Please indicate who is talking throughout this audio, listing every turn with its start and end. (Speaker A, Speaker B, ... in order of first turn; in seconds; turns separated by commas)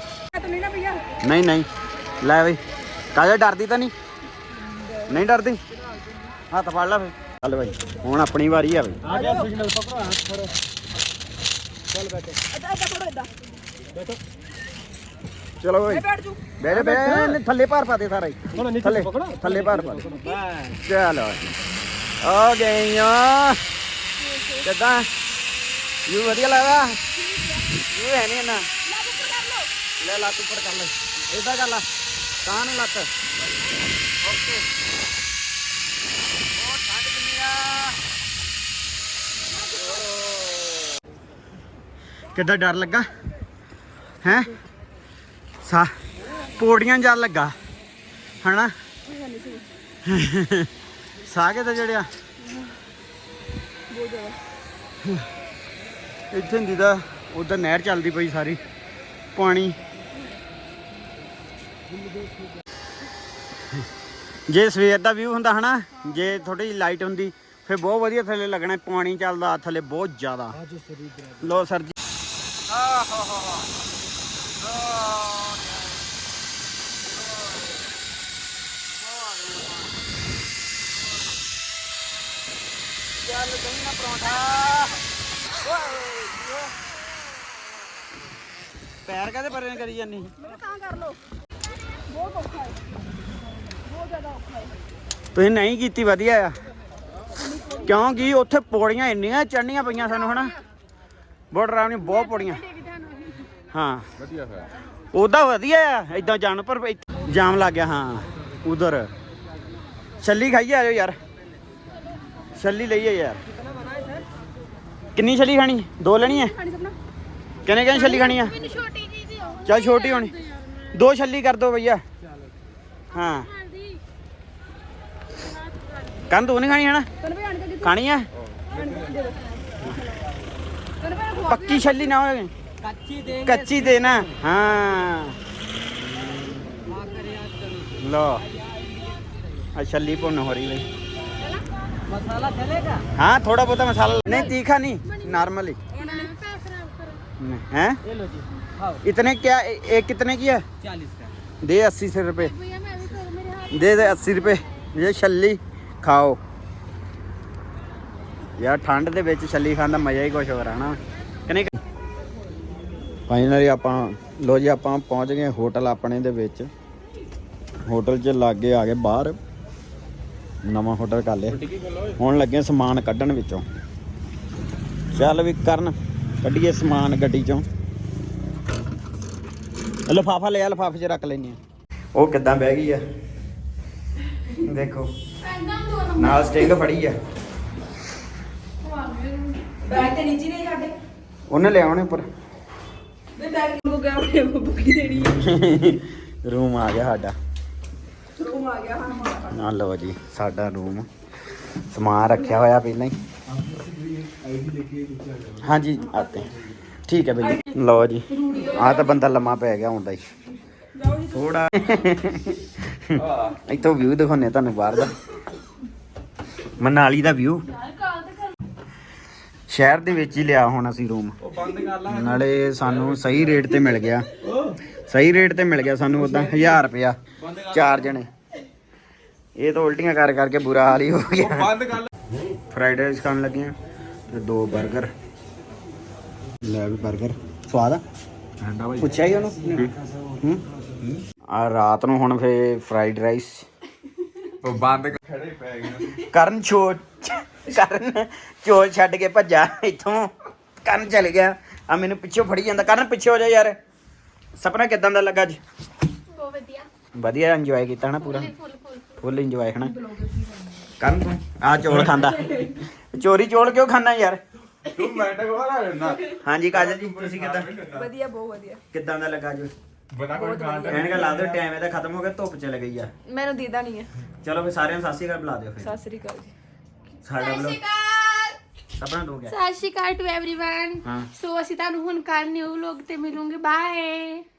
Speaker A: 0.3-1.0, Speaker B: 1.2-1.7, Speaker B: 2.2-2.6, Speaker B: 3.1-3.9, Speaker A: 4.6-5.2, Speaker B: 5.1-5.6, Speaker B: 6.5-9.0, Speaker A: 9.1-9.5, Speaker C: 9.1-10.3, Speaker A: 12.5-13.3, Speaker B: 15.6-16.0, Speaker A: 15.9-16.4, Speaker B: 16.6-21.4, Speaker C: 16.8-17.4, Speaker C: 18.6-20.6, Speaker A: 20.1-20.4, Speaker B: 22.2-23.6, Speaker A: 24.2-24.6, Speaker B: 24.6-25.1, Speaker B: 26.1-27.0, Speaker A: 27.2-27.6, Speaker B: 27.9-28.7, Speaker A: 28.9-29.7, Speaker B: 30.0-31.8, Speaker B: 32.4-33.1, Speaker B: 34.2-34.6, Speaker B: 36.6-38.0, Speaker B: 42.3-43.1, Speaker B: 44.2-44.5, Speaker A: 44.3-44.5, Speaker B: 45.6-45.9, Speaker B: 46.5-47.5, Speaker B: 48.4-48.7, Speaker A: 49.0-49.7, Speaker B: 50.0-52.1, Speaker A: 52.4-52.7, Speaker A: 53.9-54.4, Speaker B: 56.3-58.6, Speaker B: 59.3-59.8, Speaker B: 64.5-70.6, Speaker B: 71.4-72.0, Speaker B: 74.7-75.8, Speaker B: 79.0-79.9, Speaker B: 83.2-85.0, Speaker B: 85.7-86.5, Speaker B: 89.0-90.3, Speaker A: 90.4-91.2, Speaker A: 92.1-92.8, Speaker A: 93.8-94.7, Speaker B: 95.3-96.5, Speaker A: 97.4-97.9, Speaker B: 97.8-100.5, Speaker B: 101.5-102.7, Speaker D: 102.0-103.5, Speaker B: 103.7-104.1, Speaker E: 104.3-104.6, Speaker B: 105.1-109.1, Speaker B: 110.2-111.2, Speaker B: 112.5-113.4, Speaker B: 115.1-116.5, Speaker A: 116.2-117.0, Speaker B: 117.6-118.6, Speaker D: 117.9-120.9, Speaker B: 119.6-120.3, Speaker B: 120.9-122.0, Speaker B: 123.1-123.5, Speaker D: 123.1-124.0, Speaker D: 125.3-126.3, Speaker B: 126.3-127.1, Speaker A: 127.2-128.0, Speaker B: 127.8-128.3, Speaker A: 128.7-130.1, Speaker A: 131.0-132.0, Speaker B: 131.4-132.5, Speaker A: 132.8-133.5, Speaker B: 133.2-135.4, Speaker A: 137.0-137.5, Speaker B: 137.9-138.4, Speaker B: 139.7-140.8, Speaker B: 143.1-145.8, Speaker D: 144.2-147.2, Speaker A: 145.9-146.3, Speaker B: 147.4-148.0, Speaker B: 149.0-150.6, Speaker B: 151.6-152.5, Speaker D: 152.4-154.7, Speaker B: 153.7-156.4, Speaker B: 158.6-161.7, Speaker B: 163.3-166.7, Speaker B: 167.8-169.4, Speaker B: 170.6-171.6, Speaker E: 171.7-172.1, Speaker B: 172.2-173.7, Speaker B: 175.1-177.7, Speaker B: 180.1-181.6, Speaker B: 182.1-183.0, Speaker B: 184.5-185.1, Speaker D: 185.4-186.7, Speaker B: 186.2-187.2, Speaker D: 188.8-189.6, Speaker A: 189.8-190.9, Speaker B: 191.5-192.3, Speaker A: 193.3-195.4, Speaker B: 195.3-197.3, Speaker A: 198.3-199.5, Speaker B: 199.5-201.1, Speaker B: 201.9-203.2, Speaker E: 204.6-205.1, Speaker B: 205.6-206.5, Speaker B: 207.1-210.2, Speaker A: 210.9-211.4, Speaker B: 211.3-215.1, Speaker E: 213.2-213.5, Speaker B: 216.8-217.7, Speaker B: 219.7-221.4, Speaker E: 221.5-223.6, Speaker B: 221.9-224.4, Speaker B: 225.0-228.3, Speaker E: 227.5-228.0, Speaker B: 229.6-231.9, Speaker E: 231.5-232.0, Speaker B: 232.7-233.7, Speaker B: 234.3-235.1, Speaker B: 236.6-238.0, Speaker E: 238.6-239.1, Speaker B: 239.0-243.7, Speaker E: 244.6-246.2, Speaker B: 246.2-253.8, Speaker B: 254.6-255.6, Speaker D: 256.3-256.9, Speaker B: 257.1-258.5, Speaker D: 258.2-259.2, Speaker B: 259.2-259.9, Speaker A: 259.8-260.9, Speaker B: 261.0-264.4, Speaker A: 262.3-262.8, Speaker E: 264.8-268.1, Speaker B: 266.3-267.8, Speaker A: 267.9-268.8, Speaker B: 268.9-269.7, Speaker E: 270.1-271.6, Speaker A: 270.3-271.3, Speaker B: 270.9-273.1, Speaker A: 273.2-274.1, Speaker B: 274.4-275.9, Speaker A: 275.8-276.5, Speaker B: 277.2-277.8, Speaker D: 277.3-278.6, Speaker B: 279.0-279.6, Speaker D: 279.5-284.4, Speaker B: 281.0-281.3